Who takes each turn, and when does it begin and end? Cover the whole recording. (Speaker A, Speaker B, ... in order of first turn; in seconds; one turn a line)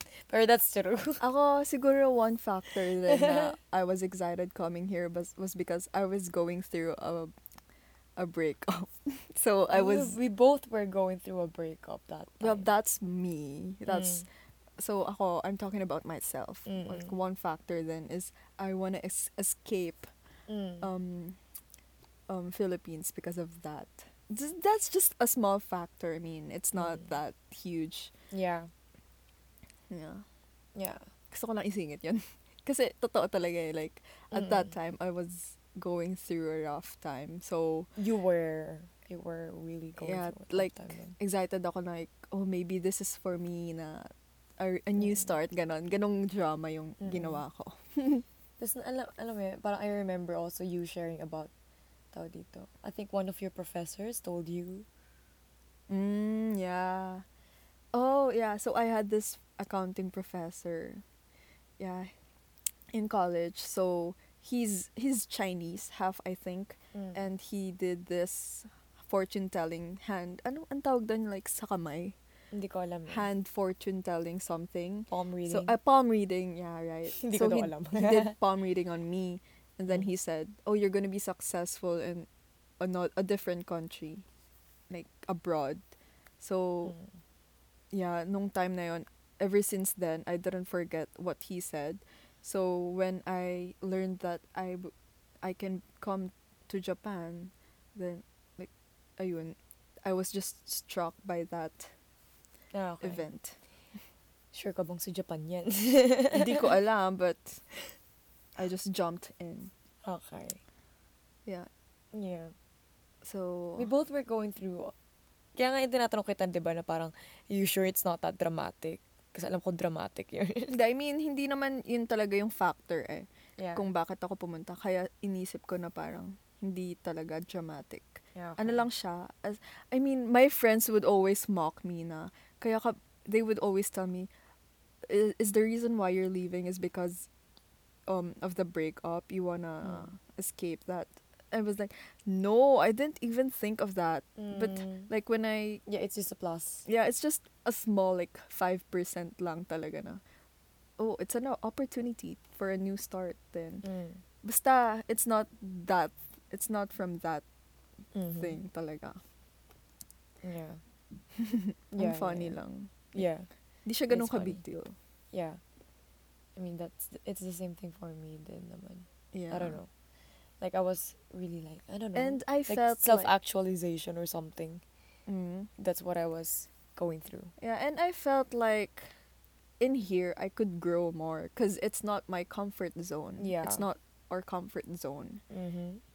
Speaker A: 0.3-1.2
Speaker B: 1.2-7.3
Speaker A: 3.0-3.5
Speaker B: 8.2-10.2
Speaker A: 9.7-12.7
Speaker B: 12.4-20.1
Speaker A: 13.9-14.3
Speaker A: 16.6-17.1
Speaker A: 20.5-20.9
Speaker B: 20.8-21.4
Speaker B: 22.3-28.1
Speaker A: 26.8-27.1
Speaker A: 28.3-28.7
Speaker B: 29.9-30.2
Speaker A: 30.7-31.1
Speaker B: 31.3-37.9
Speaker A: 34.3-34.7
Speaker A: 38.0-41.2
Speaker B: 40.0-48.2
Speaker A: 45.0-45.3
Speaker A: 47.0-47.4
Speaker A: 48.6-51.5
Speaker A: 52.1-54.9
Speaker B: 55.9-57.2
Speaker B: 57.9-61.0
Speaker B: 61.8-62.1
Speaker B: 62.9-72.2
Speaker A: 66.9-67.2
Speaker A: 72.5-73.3
Speaker B: 73.1-82.3
Speaker A: 75.1-75.8
Speaker A: 77.1-78.4
Speaker B: 82.8-84.2
Speaker B: 84.9-85.8
Speaker B: 86.4-86.9
Speaker A: 86.8-87.1
Speaker B: 87.9-101.9
Speaker A: 102.7-103.2
Speaker B: 103.0-103.6
Speaker A: 104.5-106.7
Speaker B: 106.3-107.6
Speaker B: 108.6-109.7
Speaker A: 110.0-110.6
Speaker A: 112.1-112.5
Speaker B: 113.2-113.9
Speaker A: 113.8-114.9
Speaker A: 115.5-120.8
Speaker B: 120.7-134.3
Speaker A: 123.6-123.8
Speaker A: 128.3-128.8
Speaker B: 135.0-137.3
Speaker B: 138.1-145.8
Speaker A: 139.8-140.1
Speaker A: 144.4-145.1
Speaker A: 145.8-146.8
Speaker B: 146.8-150.2
Speaker B: 151.0-153.8
Speaker A: 153.8-154.2
Speaker B: 154.4-157.4
Speaker A: 158.1-158.6
Speaker B: 158.4-159.2
Speaker A: 160.4-160.8
Speaker B: 161.3-163.3
Speaker A: 161.9-162.6
Speaker A: 163.1-163.5
Speaker B: 163.8-164.9
Speaker A: 164.1-164.6
Speaker A: 165.3-165.6
Speaker A: 166.6-169.9
Speaker B: 169.3-169.8
Speaker A: 170.6-174.8
Speaker B: 172.1-173.3
Speaker B: 175.3-175.7
Speaker A: 175.8-177.5
Speaker B: 177.6-179.1
Speaker B: 179.8-185.4
Speaker A: 183.4-183.9
Speaker A: 185.5-186.0